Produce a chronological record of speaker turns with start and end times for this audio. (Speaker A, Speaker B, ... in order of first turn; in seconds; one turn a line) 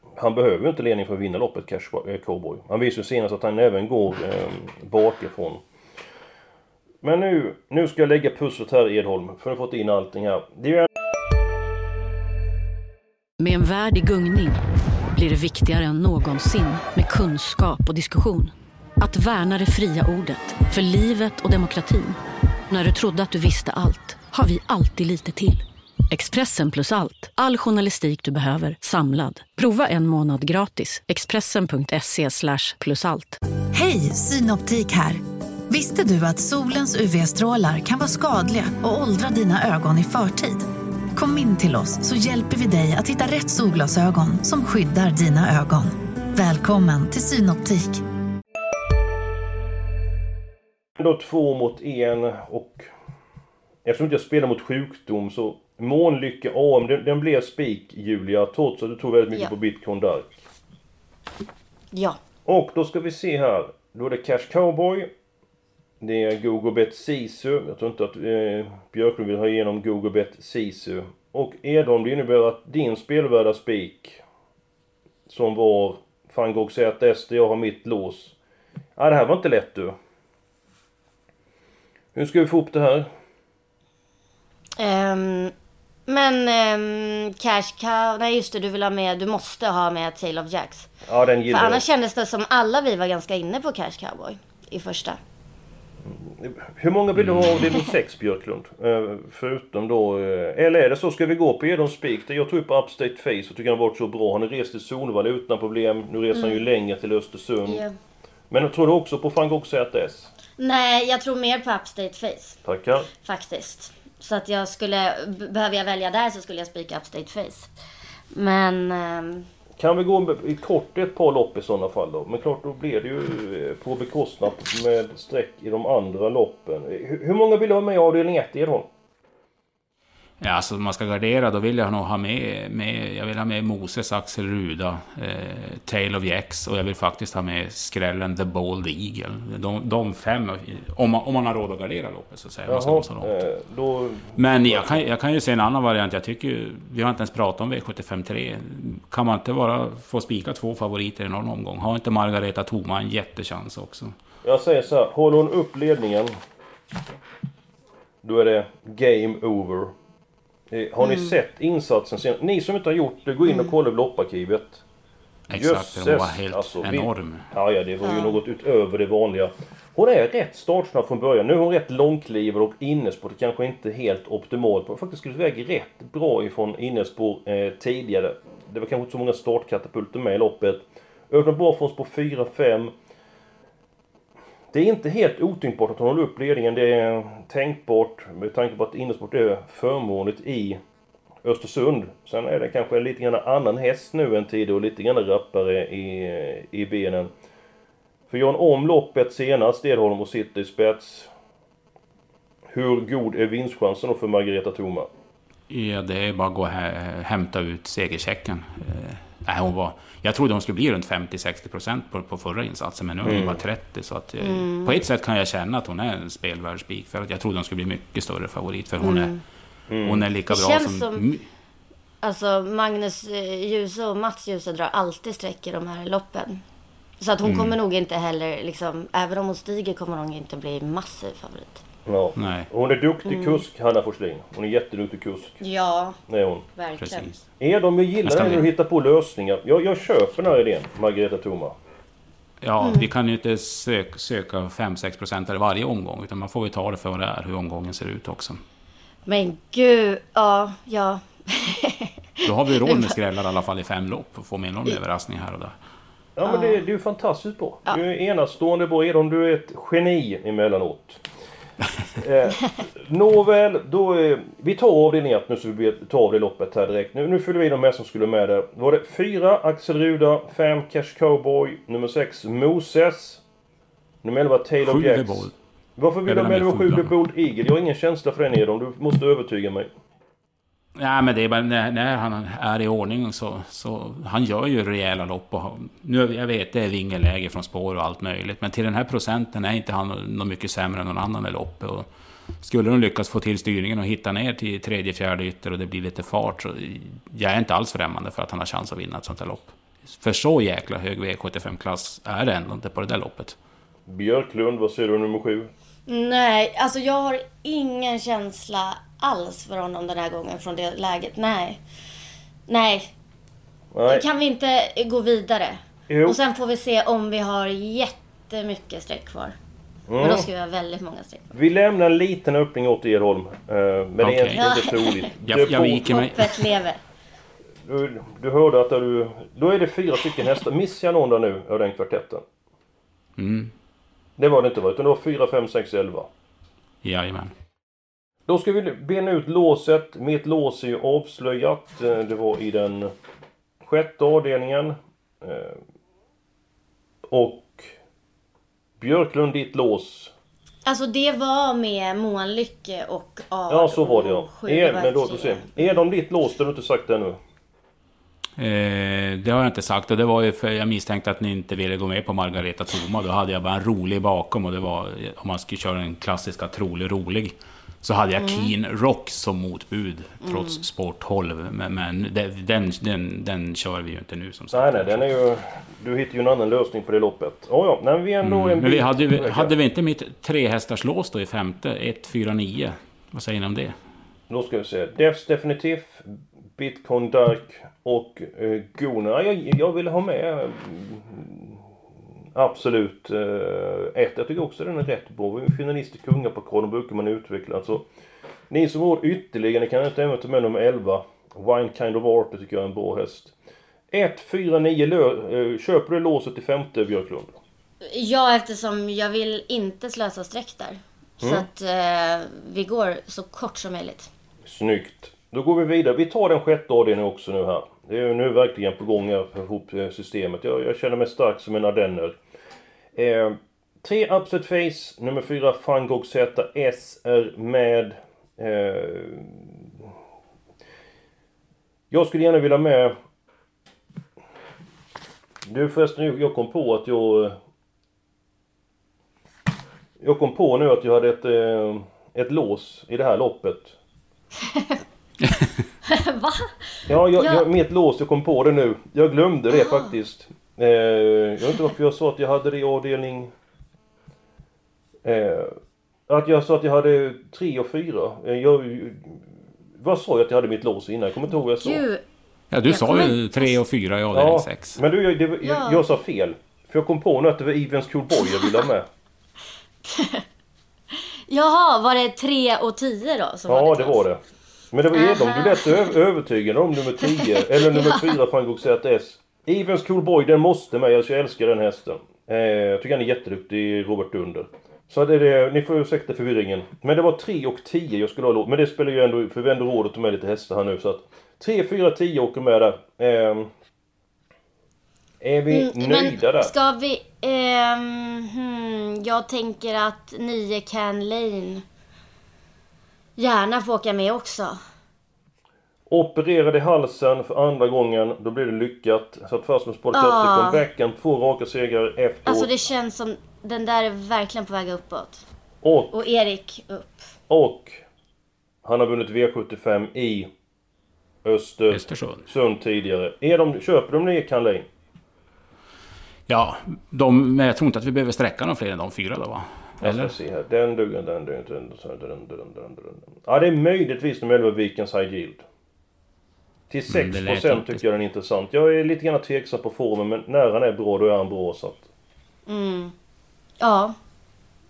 Speaker A: 0.1-5.6
Speaker A: 7.0-10.9
Speaker B: 13.4-14.6
Speaker B: 15.1-22.2
Speaker B: 22.7-33.4
Speaker C: 33.7-48.0
Speaker A: 51.0-52.9
Speaker A: 53.8-60.4
Speaker D: 61.9-62.2
Speaker A: 62.5-65.1
Speaker A: 66.0-74.2
Speaker A: 75.3-78.3
Speaker A: 79.0-80.0
Speaker A: 82.1-83.1
Speaker D: 84.8-85.5
Speaker D: 86.1-90.9
Speaker A: 91.0-91.8
Speaker D: 91.5-95.2
Speaker A: 96.0-107.8
Speaker E: 97.2-97.6
Speaker D: 106.3-106.6
Speaker D: 107.7-107.9
Speaker A: 108.5-110.3
Speaker D: 110.6-112.6
Speaker A: 112.6-113.1
Speaker D: 113.2-117.7
Speaker D: 118.3-119.5
Speaker A: 119.8-128.9
Speaker E: 130.4-143.3
Speaker A: 142.7-145.0
Speaker E: 144.3-154.1
Speaker A: 154.4-156.3
Speaker A: 158.2-159.9
Speaker A: 160.7-164.8
Speaker D: 161.0-161.3
Speaker D: 163.5-163.7
Speaker E: 165.5-167.5
Speaker A: 165.5-182.9
Speaker D: 168.0-168.4
Speaker A: 184.7-190.8
Speaker A: 191.4-197.3
Speaker A: 198.3-201.3
Speaker A: 202.7-205.1
Speaker E: 205.7-219.3
Speaker A: 213.2-213.6
Speaker D: 214.4-215.0
Speaker D: 219.0-219.4
Speaker A: 219.9-220.2
Speaker E: 220.0-221.4
Speaker D: 220.5-221.2
Speaker D: 222.2-226.6
Speaker D: 227.2-231.8
Speaker E: 227.4-227.8
Speaker A: 232.1-235.6
Speaker E: 232.4-232.7
Speaker D: 233.2-233.6
Speaker D: 235.6-236.2
Speaker A: 236.3-236.6
Speaker D: 236.8-237.3
Speaker E: 237.0-237.4
Speaker A: 237.6-241.7
Speaker E: 238.2-238.7
Speaker E: 242.6-248.6
Speaker D: 242.8-243.1
Speaker D: 249.3-252.1
Speaker E: 252.4-255.7
Speaker D: 252.7-253.1
Speaker A: 256.4-261.2
Speaker D: 256.4-256.8
Speaker A: 262.2-273.4
Speaker A: 274.2-279.9
Speaker E: 274.8-275.5
Speaker E: 276.2-277.1
Speaker E: 280.9-292.1
Speaker E: 292.6-303.6
Speaker A: 304.1-305.7
Speaker D: 306.1-311.8
Speaker D: 312.7-313.1
Speaker A: 313.9-314.2
Speaker D: 314.1-319.6
Speaker A: 316.1-316.4
Speaker A: 320.1-320.5
Speaker D: 320.2-321.5
Speaker A: 321.5-326.1
Speaker E: 324.2-324.6
Speaker D: 324.6-325.2
Speaker E: 325.4-326.7
Speaker D: 326.1-327.0
Speaker A: 327.8-332.4
Speaker E: 333.4-333.7
Speaker A: 334.4-336.3
Speaker E: 337.0-337.5
Speaker A: 338.5-343.1
Speaker A: 343.8-345.8
Speaker A: 347.3-347.9
Speaker A: 349.0-350.3
Speaker D: 350.9-355.8
Speaker A: 353.7-357.4
Speaker E: 358.6-375.2
Speaker D: 368.4-368.7
Speaker D: 370.4-370.8
Speaker A: 374.7-379.7
Speaker E: 378.4-383.9
Speaker A: 384.5-391.8
Speaker A: 392.5-398.0
Speaker A: 398.7-403.5
Speaker A: 404.1-407.6
Speaker D: 408.1-414.3
Speaker A: 411.4-411.7
Speaker A: 414.6-422.4
Speaker A: 423.1-429.8
Speaker A: 432.1-433.1
Speaker A: 435.6-437.6
Speaker A: 440.2-443.9
Speaker D: 444.6-445.0
Speaker D: 446.1-447.6
Speaker A: 447.1-453.5
Speaker D: 449.7-450.1
Speaker A: 455.2-455.8
Speaker A: 456.3-459.4
Speaker A: 460.0-462.0
Speaker D: 461.8-462.2
Speaker E: 462.7-465.0
Speaker D: 462.9-463.8
Speaker A: 464.3-469.1
Speaker D: 465.6-466.0
Speaker D: 470.0-470.4
Speaker D: 471.5-474.2
Speaker A: 473.7-474.4
Speaker A: 474.9-493.7
Speaker D: 475.1-475.9
Speaker D: 477.4-478.3
Speaker A: 495.4-496.7
Speaker D: 495.7-501.8
Speaker D: 503.4-504.8
Speaker A: 506.1-512.7
Speaker D: 510.1-510.8
Speaker D: 512.5-515.4
Speaker A: 515.8-516.1
Speaker D: 516.1-517.3
Speaker A: 517.5-518.0
Speaker A: 518.8-520.5
Speaker A: 521.4-524.9
Speaker E: 521.9-522.4
Speaker E: 526.5-530.3
Speaker A: 530.0-535.6
Speaker A: 536.9-542.1
Speaker E: 537.1-538.0
Speaker D: 542.7-543.1
Speaker D: 543.8-544.1